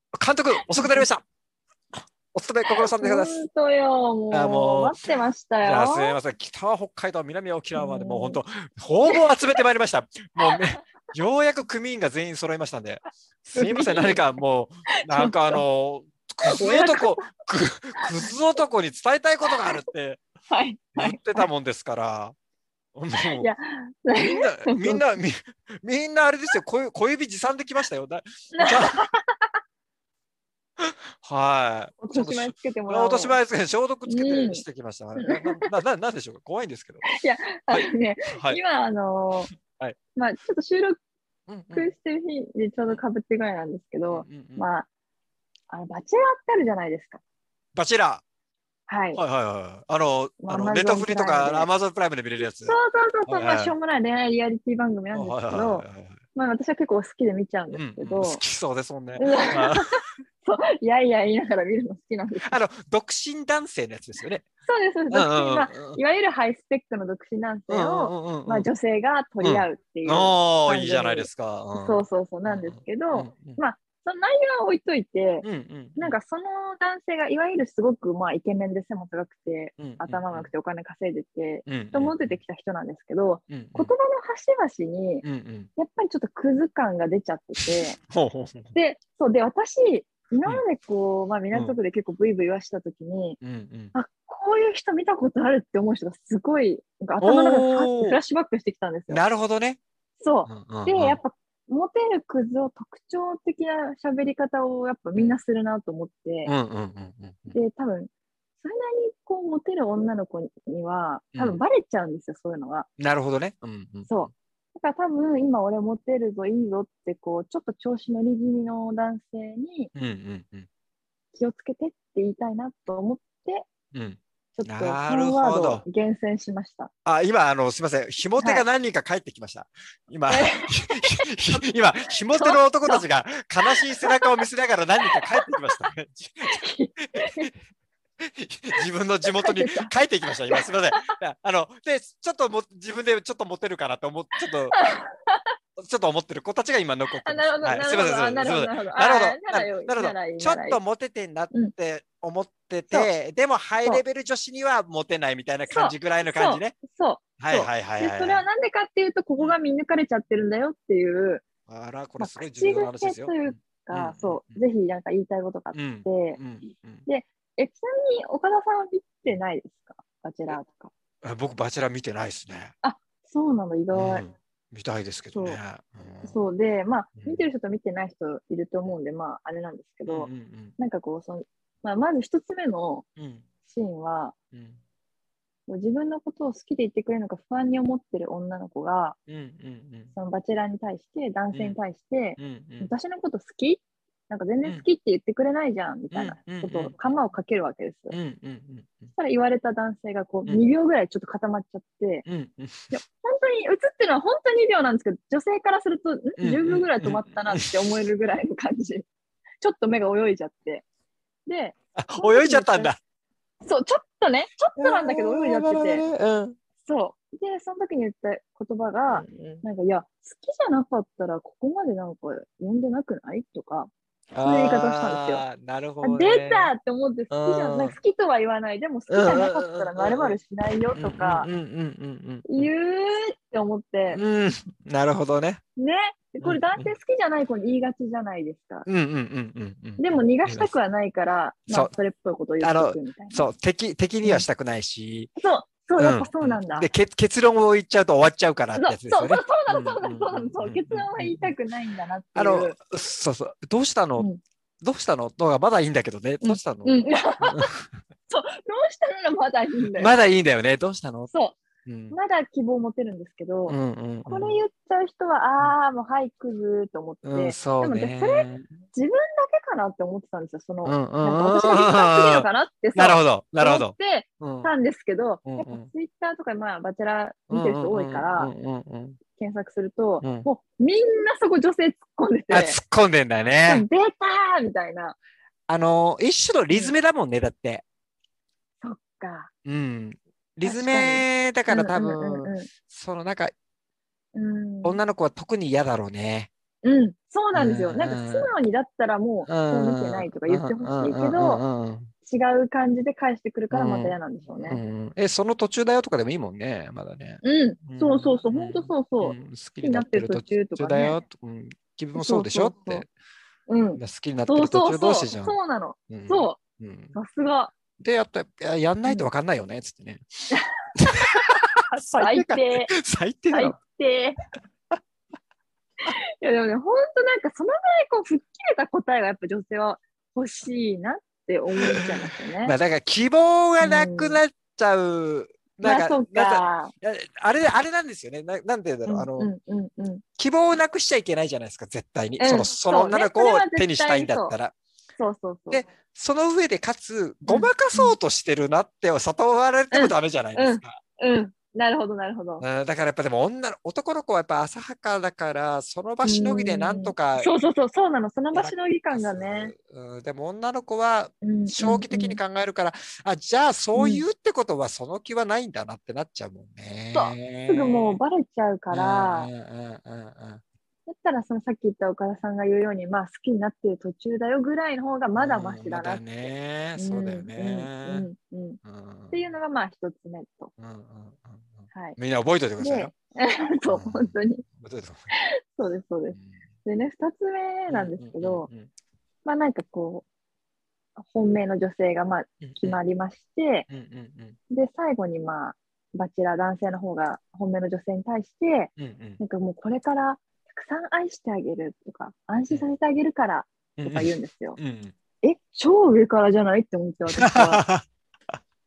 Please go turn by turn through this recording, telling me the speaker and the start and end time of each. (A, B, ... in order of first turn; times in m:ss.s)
0:00.1-0:01.2 A
0:00.7-0:01.0 B
0:02.3-0:03.4 A
0:02.7-0:06.2 B
0:04.3-0:05.0 A
0:05.6-0:20.2 A
0:07.8-0:08.4 B
0:10.4-0:10.7 B
0:13.6-0:14.2 B
0:15.1-0:15.6 B
0:16.4-0:17.2 B
0:20.5-0:21.4 B
0:20.9-0:22.3 A
0:22.9-0:23.5 A
0:23.4-0:25.0 B
0:24.1-0:29.0 A
0:28.5-0:29.5 B
0:30.8-0:37.1 A
0:32.0-0:33.4 B
0:34.0-0:34.6 B
0:35.2-0:35.7 B
0:37.0-0:39.5 B
0:37.7-0:38.6 A
0:39.7-0:40.0 A
0:40.2-0:41.0 B
0:41.5-0:41.9 A
0:41.7-0:44.8 B
0:44.1-0:44.7 A
0:45.7-0:47.2 B
0:47.7-0:48.2 A
0:48.9-0:49.2 B
0:49.2-0:53.7 A
0:50.4-0:51.7 B
0:52.6-0:58.4 B
0:55.1-0:56.2 A
0:57.7-0:59.8 A
0:59.2-1:02.6 B
1:02.4-1:04.4 A
1:04.6-1:25.2 B
1:05.1-1:06.0 A
1:07.7-1:08.7 A
1:09.4-1:13.6 A
1:15.4-1:16.2 A
1:19.8-1:20.5 A
1:21.6-1:22.4 A
1:23.5-1:23.9 A
1:25.2-1:25.7 A
1:25.8-1:28.0 B
1:27.6-1:28.7 A
1:28.7-1:33.4 B
1:31.5-1:31.8 A
1:33.4-1:33.9 A
1:33.9-1:39.2 B
1:37.2-1:38.2 A
1:39.1-1:39.8 A
1:40.2-1:46.5 B
1:40.4-1:41.2 A
1:46.4-1:47.6 A
1:47.5-1:52.9 B
1:53.0-1:54.3 A
1:54.1-1:59.9 B
1:59.9-2:00.7 A
2:01.3-2:03.7 B
2:03.9-2:05.8 A
2:04.6-2:06.9 B
2:07.0-2:16.6 A
2:08.4-2:08.6 B
2:10.3-2:11.6 B
2:12.3-2:13.0 B
2:13.6-2:14.3 B
2:15.1-2:15.7 B
2:16.4-2:17.5 B
2:17.1-2:17.5 A
2:18.2-2:24.7 A
2:18.8-2:19.9 B
2:20.5-2:21.1 B
2:24.7-2:25.5 B
2:25.8-2:36.8 A
2:27.2-2:30.8 B
2:35.7-2:41.4 B
2:37.4-2:38.4 A
2:41.7-2:44.6 A
2:42.2-2:46.4 B
2:45.7-2:47.0 A
2:47.0-2:50.9 B
2:51.2-2:52.7 A
2:52.8-2:54.3 B
2:53.9-2:56.4 A
2:55.3-2:55.6 B
2:56.2-3:03.1 B
2:57.2-2:57.4 A
3:00.0-3:00.7 A
3:03.2-3:03.4 A
3:03.7-3:04.3 B
3:04.5-3:04.8 A
3:05.7-3:09.2 B
3:09.3-3:10.1 A
3:10.1-3:18.2 B
3:11.5-3:11.8 A
3:12.4-3:12.9 A
3:16.1-3:17.0 A
3:18.1-3:19.1 A
3:19.1-3:22.2 B
3:22.2-3:23.0 A
3:22.9-3:29.0 B
3:26.4-3:27.7 A
3:29.6-3:30.8 B
3:31.5-3:32.9 B
3:32.0-3:33.0 A
3:33.6-3:36.0 B
3:34.7-3:36.6 A
3:36.8-3:43.9 B
3:39.1-3:39.6 A
3:44.3-3:46.7 A
3:44.4-3:45.4 B
3:46.0-3:51.5 B
3:47.3-3:48.0 A
3:49.1-3:50.4 A
3:50.9-3:52.7 A
3:52.4-3:54.2 B
3:54.1-3:55.6 A
3:55.8-3:58.9 B
3:56.4-3:57.0 A
3:58.8-4:00.7 A
4:00.0-4:03.5 B
4:02.6-4:05.3 A
4:05.4-4:06.9 B
4:06.0-4:11.5 A
4:08.7-4:12.8 B
4:12.3-4:14.3 A
4:14.8-4:17.8 A
4:16.4-4:17.7 B
4:18.3-4:20.2 B
4:19.9-4:21.3 A
4:21.3-4:21.6 B
4:21.8-4:22.1 A
4:22.1-4:38.5 B
4:23.7-4:24.6 A
4:27.2-4:28.7 A
4:30.8-4:34.7 A
4:35.4-4:35.9 A
4:37.5-4:39.2 A
4:39.4-4:42.8 B
4:40.2-4:40.5 A
4:42.5-4:43.8 A
4:43.7-4:45.2 B
4:45.7-4:47.8 A
4:48.8-4:49.5 B
4:49.6-4:53.5 A
4:50.6-4:52.7 B
4:54.3-4:55.0 B
4:54.8-4:56.5 A
4:56.8-5:01.6 B
4:57.5-4:58.5 A
4:59.4-5:02.1 A
5:02.2-5:04.8 B
5:03.7-5:13.1 A
5:07.4-5:11.2 B
5:12.1-5:13.0 B
5:13.7-5:16.6 B
5:14.0-5:15.6 A
5:16.1-5:17.2 A
5:17.1-5:17.7 B
5:18.0-5:20.2 A
5:20.5-5:21.3 B
5:21.0-5:23.8 A
5:22.1-5:22.9 B
5:23.5-5:24.4 B
5:26.1-5:32.7 B
5:32.6-5:39.5 A
5:33.8-5:34.4 B
5:35.8-5:36.9 B
5:39.1-5:40.2 B
5:40.4-5:44.7 A
5:42.4-5:44.5 B
5:45.2-5:45.8 B
5:45.7-5:51.0 A
5:47.5-5:48.2 B
5:49.9-5:52.6 B
5:52.6-5:57.5 A
5:56.2-5:59.7 B
5:58.5-6:08.2 A
6:01.4-6:02.4 B
6:03.9-6:04.2 B
6:07.1-6:09.5 B
6:08.9-6:10.6 A
6:11.1-6:18.8 B
6:15.3-6:18.3 A
6:18.8-6:19.6 A
6:19.3-6:20.7 B
6:20.8-6:23.1 A
6:21.9-6:22.2 B
6:22.8-6:24.6 B
6:23.9-6:25.3 A
6:25.4-6:28.7 B
6:26.3-6:26.6 A
6:27.9-6:28.9 A
6:29.4-6:30.2 B
6:31.2-6:33.9 B
6:32.6-6:33.0 A
6:33.9-6:34.6 A
6:34.7-6:44.8 B
6:39.0-6:39.4 A
6:44.0-6:45.1 A
6:45.4-6:47.8 B
6:47.3-6:48.5 A